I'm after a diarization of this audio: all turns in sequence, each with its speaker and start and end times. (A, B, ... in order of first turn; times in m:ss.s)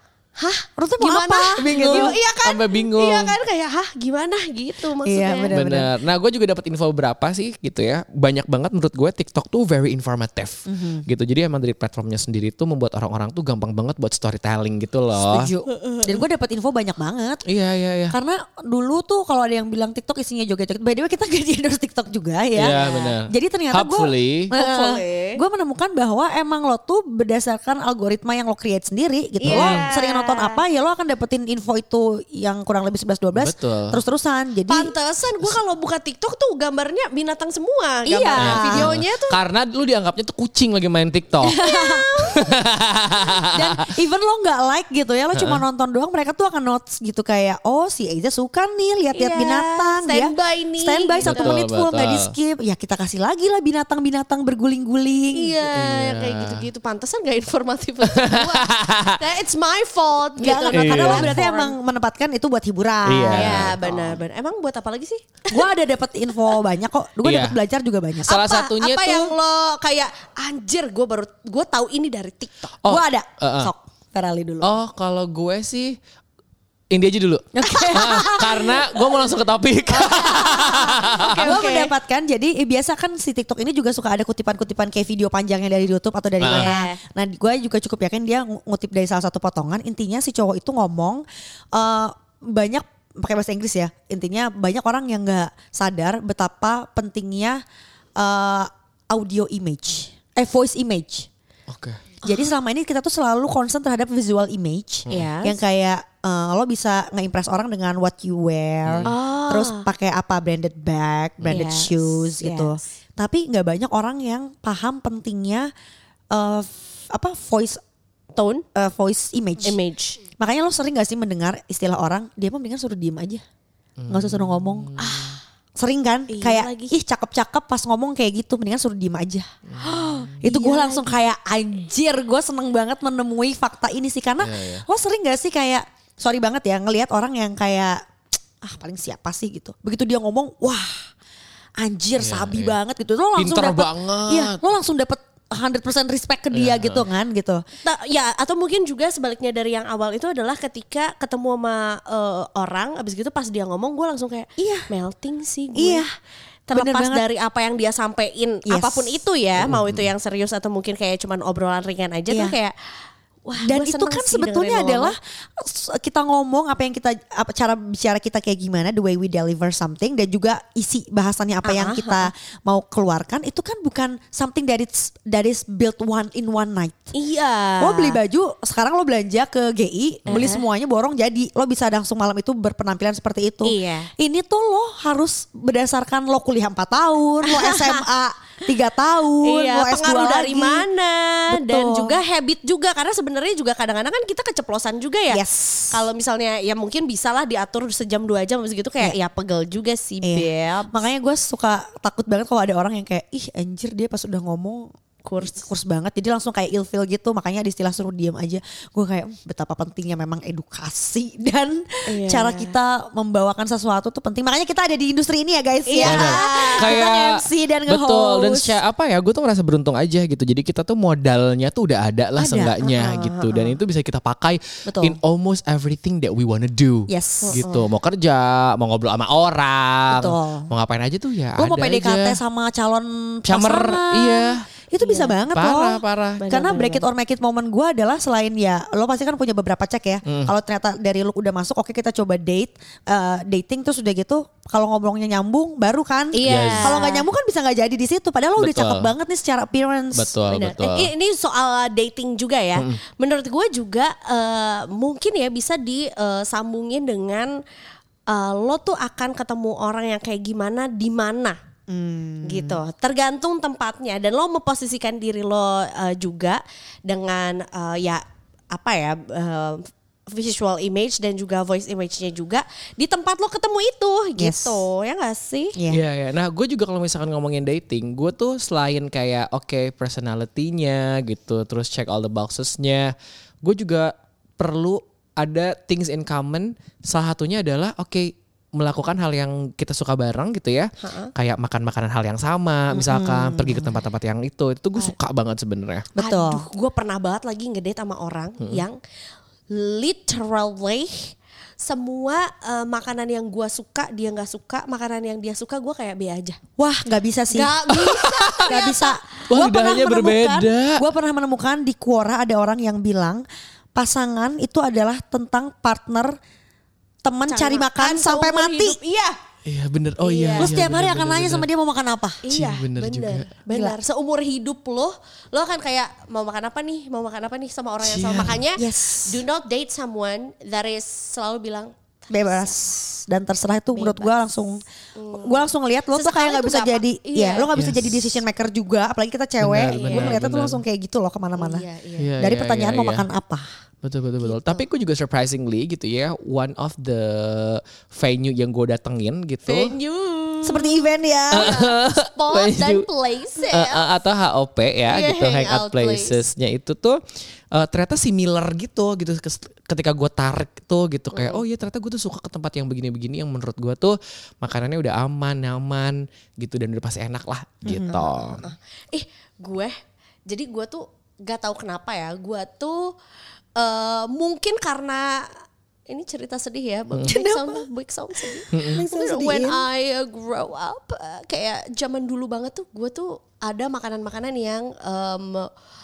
0:00.4-0:05.5 A
0:00.8-0:02.2 B
0:01.7-0:03.4 C
0:05.0-0:05.9 B
0:05.5-0:15.5 C
0:10.7-0:11.1 B
0:15.2-0:17.4 B
0:15.7-0:16.2 A
0:17.5-0:18.2 C
0:18.1-0:34.9 B
0:22.6-0:24.5 C
0:24.5-0:25.4 A
0:29.4-0:29.9 C
0:29.4-0:30.6 A
0:33.4-0:34.0 C
0:34.7-0:39.4 A
0:38.1-0:38.9 B
0:38.4-0:41.5 C
0:41.5-0:42.5 A
0:41.6-0:42.1 B
0:42.3-0:43.8 C
0:43.5-0:55.6 B
0:45.3-0:45.6 C
0:49.1-0:51.6 A
0:51.2-0:52.3 C
0:55.3-1:01.7 A
0:55.7-0:56.6 C
0:58.1-0:59.2 C
1:00.4-1:03.8 B
1:00.7-1:01.4 C
1:03.1-1:04.2 C
1:03.3-1:05.5 A
1:05.5-1:08.4 B
1:07.2-1:07.6 C
1:08.3-1:09.4 C
1:08.3-1:12.8 A
1:12.8-1:13.7 C
1:12.8-1:14.7 B
1:14.6-1:16.0 C
1:16.9-1:21.6 C
1:17.6-1:19.0 B
1:17.7-1:18.6 A
1:19.9-1:21.9 A
1:20.3-1:37.6 B
1:26.4-1:26.7 C
1:26.5-1:27.0 A
1:38.2-1:41.3 B
1:41.7-1:42.0 C
1:42.2-1:55.7 B
1:45.1-1:45.6 A
1:49.0-1:49.9 A
1:51.5-1:52.8 A
1:56.3-1:57.8 B
1:58.4-1:58.6 A
1:58.8-1:59.8 B
1:59.6-2:00.2 A
2:00.4-2:03.4 B
2:04.0-2:05.4 C
2:04.1-2:04.9 B
2:05.0-2:05.4 A
2:05.8-2:09.5 B
2:06.3-2:07.0 A
2:09.7-2:10.4 C
2:09.8-2:11.1 A
2:10.4-2:18.0 B
2:14.4-2:14.8 C
2:18.6-2:21.1 B
2:21.8-2:27.6 B
2:22.2-2:22.8 C
2:23.4-2:24.6 C
2:26.5-2:27.1 C
2:27.8-2:36.1 A
2:34.6-2:34.9 B
2:35.8-2:36.1 B
2:36.7-2:42.7 A
2:36.7-2:37.2 B
2:38.7-2:39.2 B
2:39.6-2:40.1 C
2:42.3-2:42.6 B
2:43.5-2:45.2 A
2:43.6-2:57.1 B
2:51.6-2:52.3 A
2:57.1-2:58.2 A
2:57.8-3:10.9 B
3:00.3-3:00.6 A
3:03.6-3:04.1 A
3:07.4-3:08.0 A
3:09.4-3:21.1 A
3:11.5-3:12.2 B
3:15.3-3:16.0 B
3:20.2-3:24.9 B
3:25.2-3:25.7 A
3:25.4-3:38.8 B
3:32.1-3:32.7 A
3:35.9-3:36.9 A
3:36.0-3:52.4 C
3:42.4-3:43.0 B
3:43.0-3:43.7 A
3:44.9-3:45.2 B
3:47.1-3:47.6 B
3:47.4-3:47.9 A
3:50.1-3:50.7 B
3:51.6-4:10.4 B
3:53.5-3:54.7 C
3:55.0-3:55.4 A
3:55.5-3:56.4 C
3:56.4-3:57.0 A
4:00.3-4:00.5 C
4:06.3-4:07.2 A
4:06.4-4:07.1 C
4:08.6-4:09.1 C
4:10.1-4:11.1 C
4:10.5-4:17.6 A
4:18.3-4:21.6 A
4:21.9-4:22.8 B
4:22.4-4:35.8 A
4:34.4-4:34.8 B
4:35.8-4:36.0 B
4:35.9-4:56.1 C
4:51.0-4:51.3 A
4:52.9-4:54.0 B
4:56.2-4:56.6 B
4:56.2-4:59.0 A
4:59.7-5:06.6 A
5:06.8-5:07.8 B
5:07.5-5:09.2 A
5:07.9-5:08.6 C
5:08.7-5:16.4 B
5:09.5-5:11.0 C
5:17.2-5:19.0 B
5:17.5-5:19.4 A
5:19.6-5:21.7 C
5:20.2-5:20.7 A
5:20.6-5:22.4 B
5:22.4-5:32.7 A
5:22.5-5:23.5 C
5:23.7-5:24.0 B
5:28.0-5:28.6 C
5:28.8-5:29.4 B
5:32.3-5:34.8 B
5:34.0-5:34.3 A
5:35.2-5:37.7 A
5:35.4-5:41.9 B
5:37.7-5:38.4 C
5:39.6-5:40.8 C
5:39.9-5:40.4 A
5:41.6-5:42.3 A
5:42.2-5:43.3 C
5:42.4-5:43.7 B
5:44.0-5:49.9 C
5:44.5-5:44.8 A
5:49.7-5:54.1 A
5:50.6-5:51.8 B
5:51.5-5:53.1 C
5:53.7-5:57.2 C
5:55.1-5:56.4 A
5:57.7-6:08.6 C
6:01.3-6:01.6 A
6:07.8-6:08.3 B
6:08.6-6:10.0 A
6:10.5-6:13.1 A
6:13.8-6:15.5 A
6:16.1-6:25.7 A
6:17.3-6:17.9 B
6:18.4-6:19.9 B
6:18.7-6:19.0 C